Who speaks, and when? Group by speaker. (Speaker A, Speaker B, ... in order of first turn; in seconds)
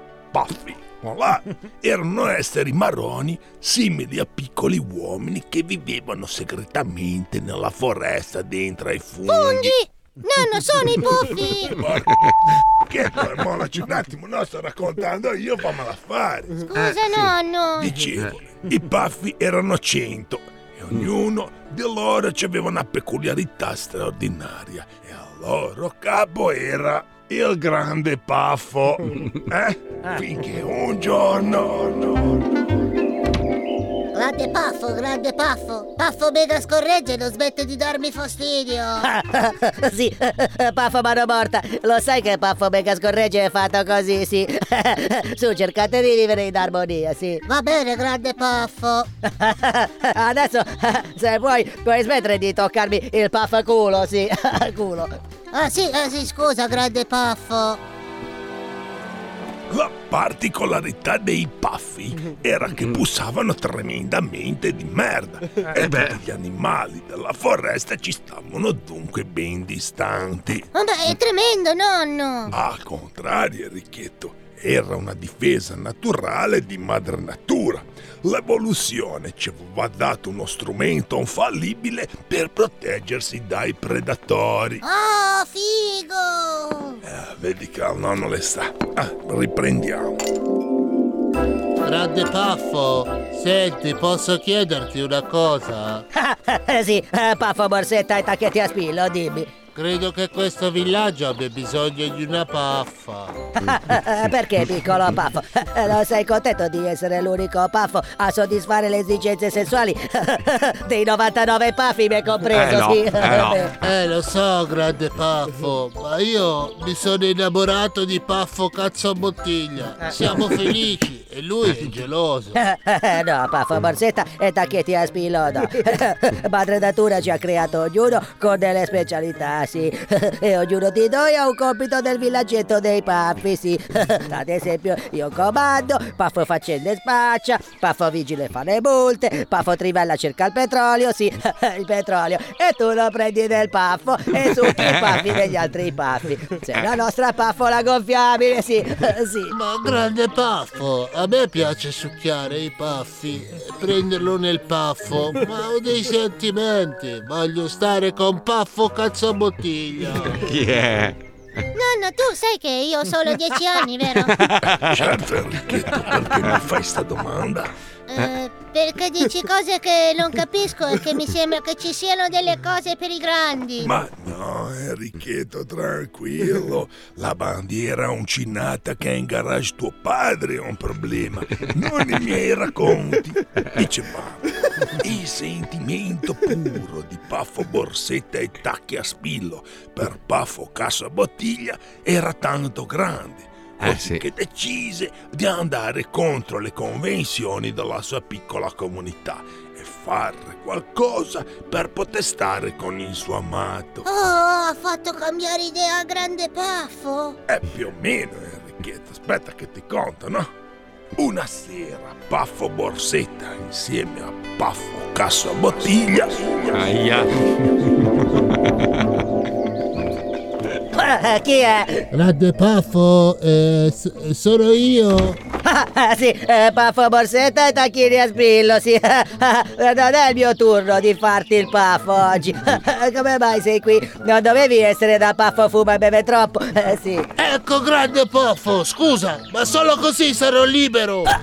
Speaker A: 0.3-9.8, 11.7-12.1, 12.9-16.6, 17.8-32.4, 59.7-70.7, 72.5-84.8, 87.0-90.2, 164.8-167.7, 173.8-204.1, 207.5-210.5, 211.2-216.9
Speaker B: 9.3-11.8, 16.7-17.9, 34.1-39.0, 47.4-49.1, 55.5-57.8, 70.7-72.5, 84.8-87.0, 161.7-164.4, 168.1-173.9, 204.1-207.4
Speaker C: 16.8-17.2, 65.7-66.2, 112.5-113.6, 144.7-145.2, 160.4-161.2, 164.2-165.1, 193.8-194.2, 216.7-218.9
Speaker D: 39.0-47.4, 49.3-55.1, 96.2-99.5, 103.7-113.7, 122.6-149.5, 220.9-222.0, 225.7-237.3
Speaker E: 91.8-96.0, 99.7-103.5, 113.8-122.6, 149.5-160.4, 222.1-225.4, 237.4-241.3